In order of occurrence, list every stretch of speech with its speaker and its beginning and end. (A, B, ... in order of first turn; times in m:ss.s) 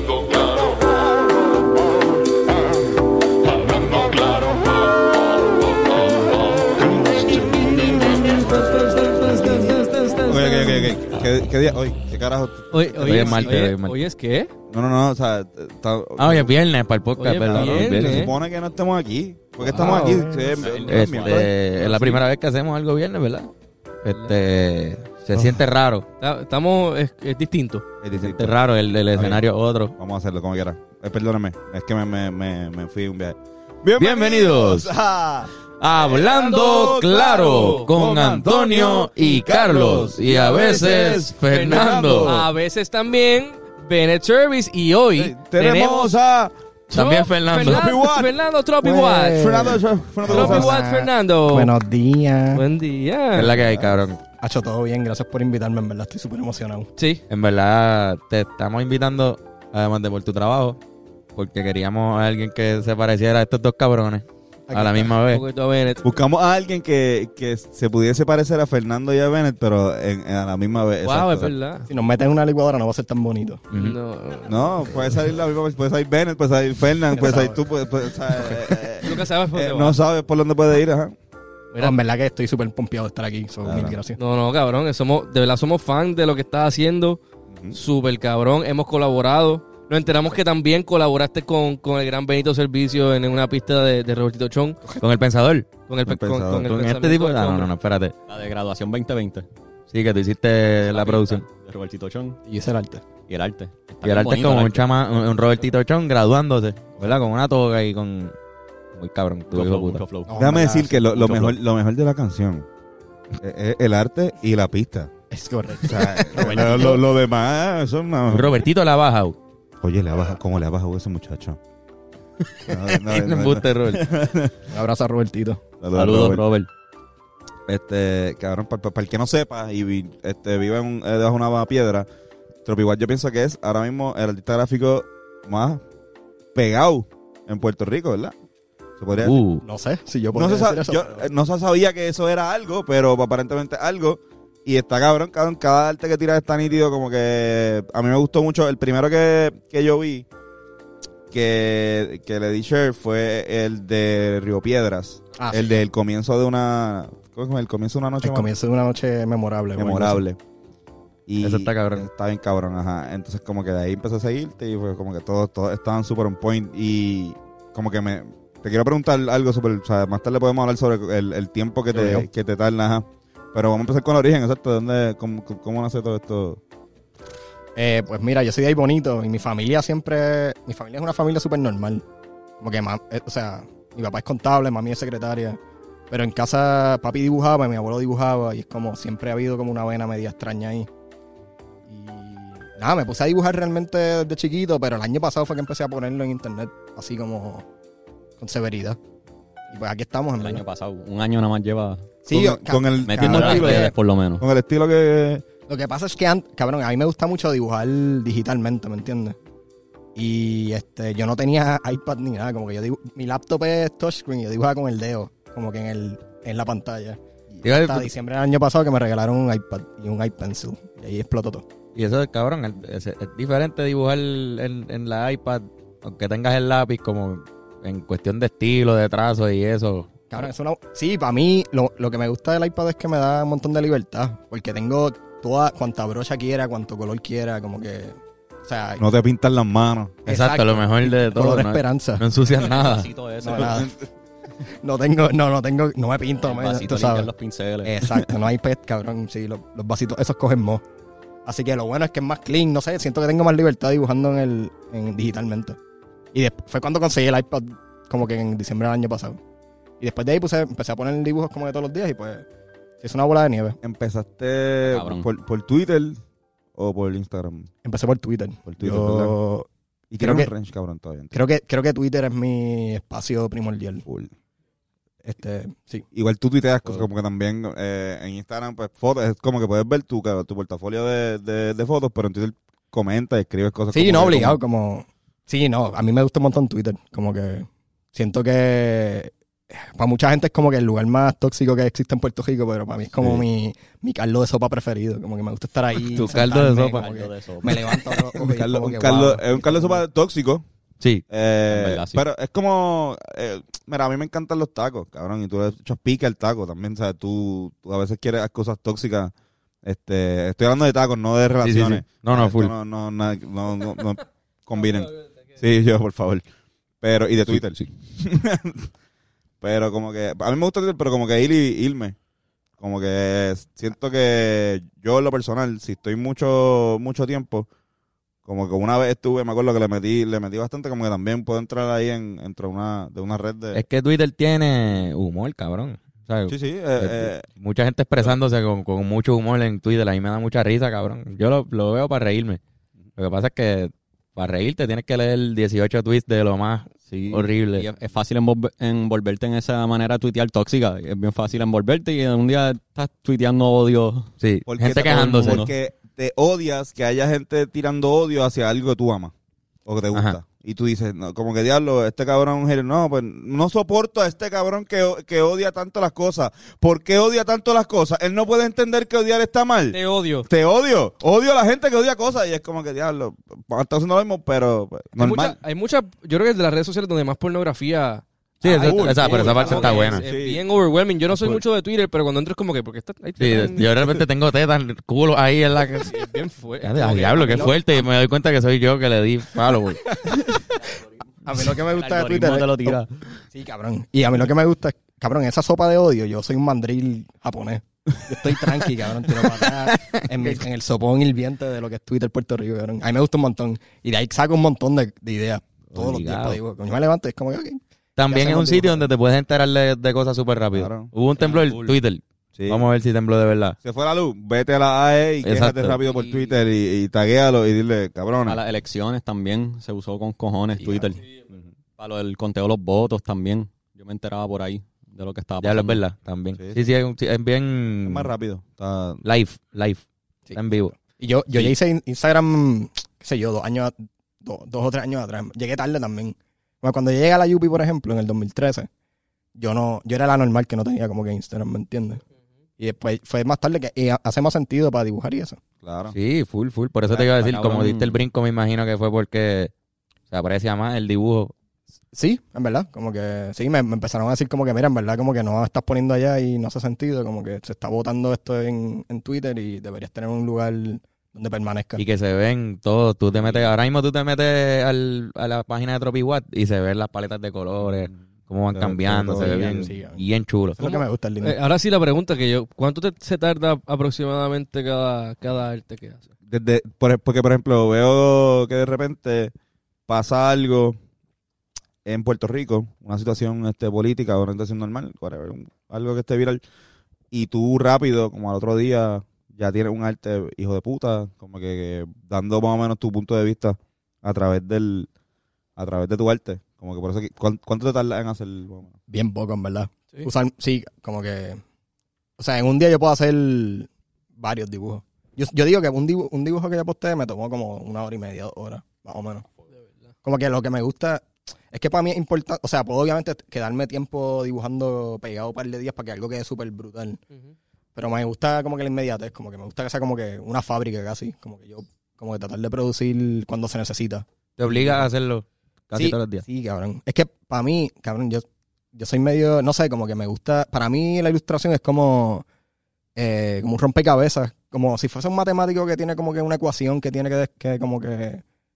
0:03.8-0:04.6 A
0:07.0-0:11.0 A
0:10.2-0:13.6 B
0:12.7-0:14.5 A
0:13.0-0:14.0 C
0:14.7-0:16.5 B
0:16.2-0:18.3 C
0:17.2-0:18.3 A
0:17.5-0:22.2 B
0:19.6-0:20.6 A
0:20.6-0:21.9 D
0:20.8-0:23.5 C
0:24.0-0:26.1 C
0:26.2-0:27.8 A
0:28.0-0:28.5 B
0:28.2-0:30.0 C
0:29.1-0:29.4 B
0:30.0-0:42.5 B
0:34.0-0:34.9 C
0:35.8-0:42.5 C
0:37.4-0:37.9 A
0:40.3-0:46.2 A
0:45.2-0:46.6 B
0:46.9-0:47.8 C
0:46.9-0:49.5 A
0:47.5-0:48.3 B
0:48.8-0:52.6 E
0:49.3-0:50.8 B
0:50.3-0:51.7 A
0:52.5-0:53.6 A
0:53.4-0:54.2 C
0:54.4-0:56.9 E
0:57.0-0:57.2 A
0:57.3-1:00.8 C
1:01.4-1:05.4 C
1:04.7-1:05.2 E
1:05.3-1:06.1 A
1:06.0-1:11.5 B
1:11.0-1:11.9 A
1:11.9-1:13.6 E
1:13.7-1:14.0 C
1:13.7-1:15.2 A
1:14.5-1:21.2 B
1:17.1-1:17.6 E
1:18.9-1:20.0 A
1:21.8-1:24.2 E
1:23.6-1:24.0 B
1:24.2-1:27.2 A
1:27.5-1:27.8 B
1:27.7-1:34.8 A
1:35.0-1:35.8 C
1:35.9-1:37.7 A
1:36.1-1:36.7 B
1:36.5-1:38.2 C
1:38.3-1:39.5 D
1:39.9-1:41.4 C
1:40.8-1:42.4 D
1:42.5-1:43.0 E
1:43.3-1:45.3 D
1:44.0-1:48.3 C
1:48.9-1:50.0 C
1:49.5-1:51.6 D
1:50.3-1:51.1 E
1:50.4-1:52.7 B
1:53.4-1:55.1 B
1:55.3-1:57.0 E
1:55.8-1:58.7 B
1:58.3-1:59.4 C
1:59.8-2:01.6 B
2:02.7-2:04.1 C
2:02.7-2:04.7 B
2:04.7-2:05.6 E
2:05.8-2:06.4 B
2:05.9-2:06.7 D
2:07.7-2:12.1 B
2:12.6-2:15.8 B
2:16.5-2:18.3 B
2:19.0-2:19.4 B
2:19.2-2:19.6 C
2:19.6-2:21.3 E
2:20.4-2:30.3 B
2:31.3-2:38.5 B
2:35.4-2:35.8 E
2:38.2-2:40.2 E
2:39.8-2:40.4 B
2:41.3-2:56.6 B
2:41.4-2:42.1 C
2:51.9-2:52.3 E
2:57.8-3:02.0 E
3:02.6-3:05.6 E
3:06.1-3:10.9 E
3:11.9-3:17.7 E
3:18.4-3:19.0 E
3:19.7-3:20.6 E
3:20.4-3:22.1 D
3:22.2-3:24.0 E
3:22.3-3:25.4 B
3:23.1-3:24.4 D
3:25.7-3:29.4 E
3:30.2-3:41.7 E
3:37.6-3:38.1 C
3:42.0-3:50.4 C
3:50.3-3:59.0 E
3:59.0-4:00.2 B
4:00.2-4:03.1 C
4:00.3-4:02.3 E
4:02.5-4:03.9 D
4:03.4-4:03.9 E
4:03.5-4:04.1 B
4:04.6-4:07.3 E
4:06.4-4:07.9 D
4:07.8-4:10.8 E
4:11.4-4:15.8 E
4:16.3-4:19.4 E
4:20.0-4:22.5 E
4:23.0-4:23.8 E
4:23.8-4:26.2 B
4:24.8-4:25.3 D
4:26.8-4:27.7 B
4:27.8-4:29.7 E
4:28.7-4:29.4 B
4:30.1-4:31.4 B
4:30.2-4:30.5 E
4:31.3-4:34.1 E
4:34.1-4:34.3 B
4:35.2-4:36.0 E
4:36.1-4:44.6 B
4:43.9-5:00.0 E
4:53.2-4:53.4 B
4:56.0-4:57.1 C
4:57.0-4:58.0 D
4:58.3-5:00.6 B
5:01.3-5:09.3 B
5:01.7-5:02.2 D
5:09.8-5:16.4 B
5:11.6-5:12.7 C
5:17.0-5:18.9 B
5:17.5-5:17.8 C
5:19.6-5:22.2 B
5:22.8-5:27.7 B
5:28.4-5:33.8 B
5:33.7-5:42.6 C
5:36.5-5:37.5 B
5:43.2-5:47.9 C
5:47.1-5:54.3 D
5:54.4-5:55.7 C
5:54.7-5:59.3 B
5:54.9-5:55.7 D
5:59.9-6:15.6 B
6:09.9-6:10.5 A
6:15.2-6:24.1 A
6:18.6-6:20.2 C
6:18.6-6:20.6 B
6:21.3-6:21.6 B
6:23.4-6:26.2 C
6:26.0-6:28.0 A
6:26.8-6:30.2 C
6:30.1-6:30.6 E
6:31.5-6:49.1 E
6:31.6-6:33.1 D
6:39.4-6:40.6 C
6:45.9-6:46.6 C
6:48.2-6:53.8 C
6:50.7-6:51.1 B
6:51.4-6:52.0 D
6:52.6-6:52.8 B
6:53.8-6:58.6 B
6:55.4-6:56.0 C
6:56.0-6:56.6 D
6:58.5-7:01.2 D
7:02.0-7:06.0 D
7:05.6-7:08.3 C
7:06.6-7:06.9 B
7:08.0-7:09.2 B
7:09.2-7:10.0 C
7:10.5-7:18.9 E
7:10.6-7:11.0 C
7:19.6-7:22.2 E
7:22.8-7:25.6 E
7:25.8-7:26.2 B
7:26.1-7:29.7 C
7:27.1-7:28.2 D
7:30.3-7:31.5 C
7:32.1-7:42.0 E
7:42.0-7:50.8 C
7:47.8-7:49.9 B
7:49.3-7:50.2 E
7:50.8-7:51.6 E
7:50.8-7:56.3 A
7:56.5-7:59.5 B
8:00.1-8:01.0 B
8:02.0-8:06.6 B
8:07.3-8:15.1 B
8:15.8-8:19.0 B
8:19.1-8:21.6 E
8:22.4-8:29.5 E
8:30.2-8:37.2 E
8:38.0-8:45.1 E
8:44.6-8:46.4 C
8:45.9-8:52.4 E
8:53.2-8:58.4 E